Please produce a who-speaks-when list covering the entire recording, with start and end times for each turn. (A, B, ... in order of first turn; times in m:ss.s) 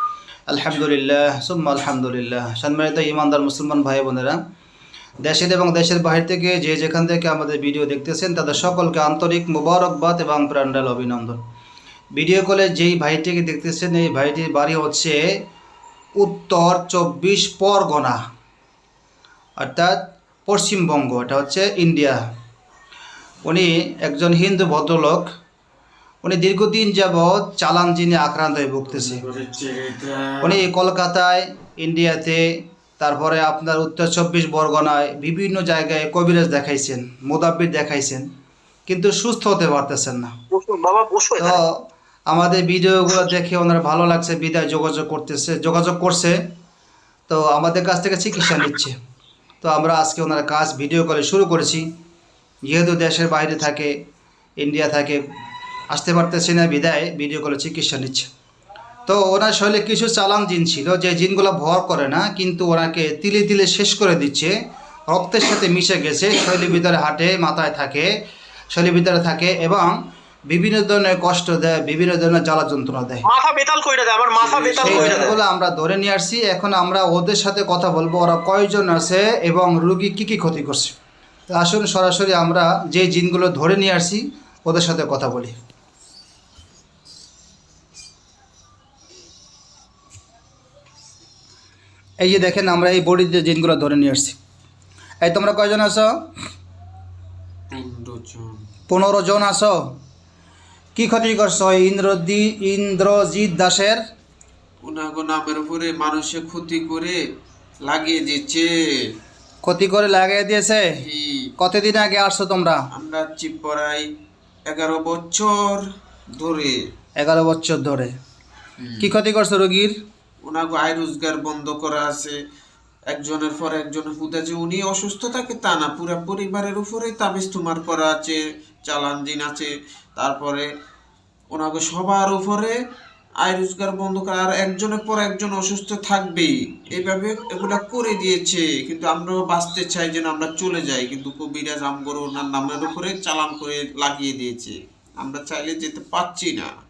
0:00.5-0:04.4 A
0:05.2-0:11.4 A
0:12.1-0:15.2 A
0:16.2-0:18.2 A
0:19.6-0:22.2 A
0:23.4-0:25.3 A
0:26.2-0:29.2 A
0:28.9-0:30.6 B
0:30.4-0:32.4 A
0:33.0-0:38.2 A
0:38.9-0:40.3 A
0:40.5-0:41.6 C
0:41.4-0:41.8 A
0:42.3-0:46.4 A
0:47.3-0:49.0 A
0:49.6-0:51.8 A
0:52.7-0:53.9 A
0:54.6-0:55.2 A
0:55.9-0:58.3 A
0:59.1-1:04.5 A
1:05.1-1:08.1 A
1:08.7-1:09.9 A
1:10.5-1:13.2 A
1:13.2-1:15.4 C
1:14.4-1:15.3 B
1:14.8-1:20.9 A
1:21.5-1:25.5 A
1:32.2-1:34.4 A
1:35.2-1:36.1 A
1:37.7-1:38.6 B
1:38.9-1:39.9 A
1:41.0-1:44.0 A
1:44.8-1:47.2 B
1:47.8-1:48.7 B
1:49.6-1:50.9 A
1:51.0-1:51.5 B
1:51.6-1:52.8 A
1:52.9-1:54.1 B
1:54.7-1:56.8 B
1:57.2-1:58.1 A
1:58.8-1:59.1 B
1:59.0-1:59.9 A
2:00.4-2:02.3 B
2:03.1-2:10.6 B
2:11.5-2:12.7 B
2:13.4-2:26.7 B